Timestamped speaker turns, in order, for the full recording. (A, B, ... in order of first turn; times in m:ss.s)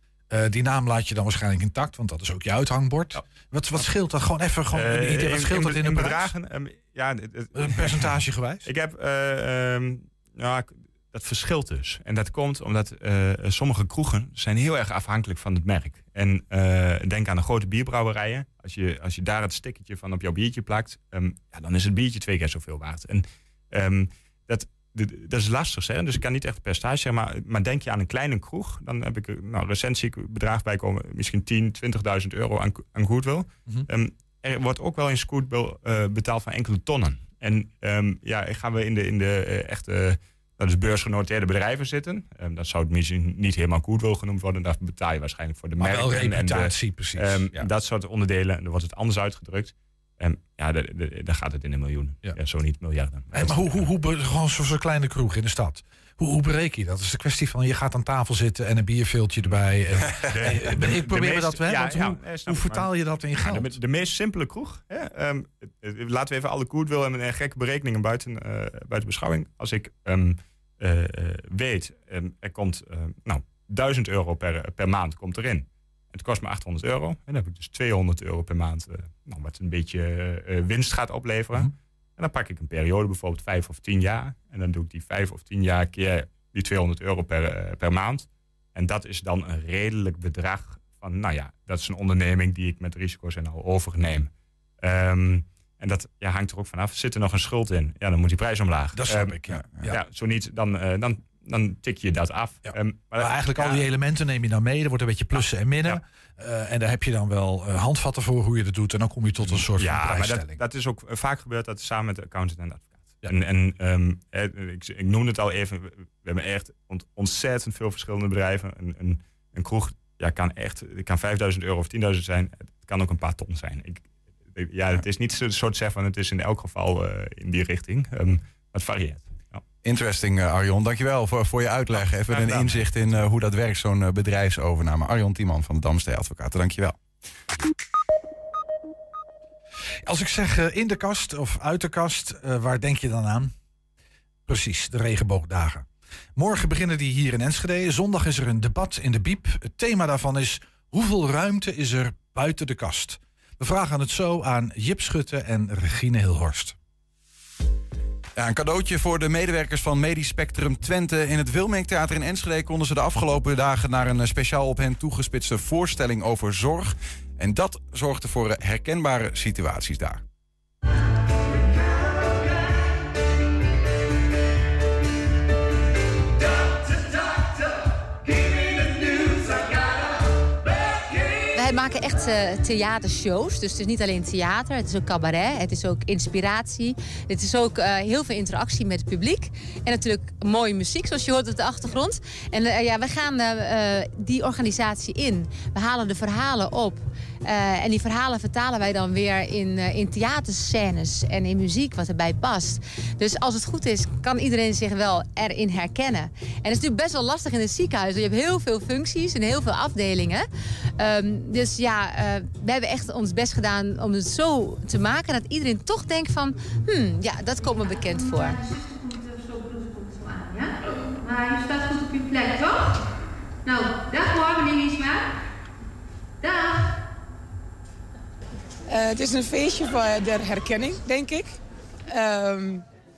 0:00.3-0:06.3 A
0:04.7-0:53.9 B
0:07.6-0:08.7 A
0:45.8-0:47.6 A
0:53.3-1:03.8 A
0:59.4-1:43.9 B
1:38.9-1:40.0 A
1:42.7-1:50.6 A
1:45.4-1:46.0 B
1:49.4-2:09.6 B
2:09.8-2:17.0 C
2:11.9-2:13.2 B
2:20.1-2:23.5 A
2:24.5-2:36.8 A
2:38.4-2:50.2 C
3:01.5-3:38.6 D
3:38.6-3:43.0 E
3:43.6-3:45.3 E
3:46.4-3:46.9 E
3:48.9-3:51.6 F
3:52.1-3:52.8 F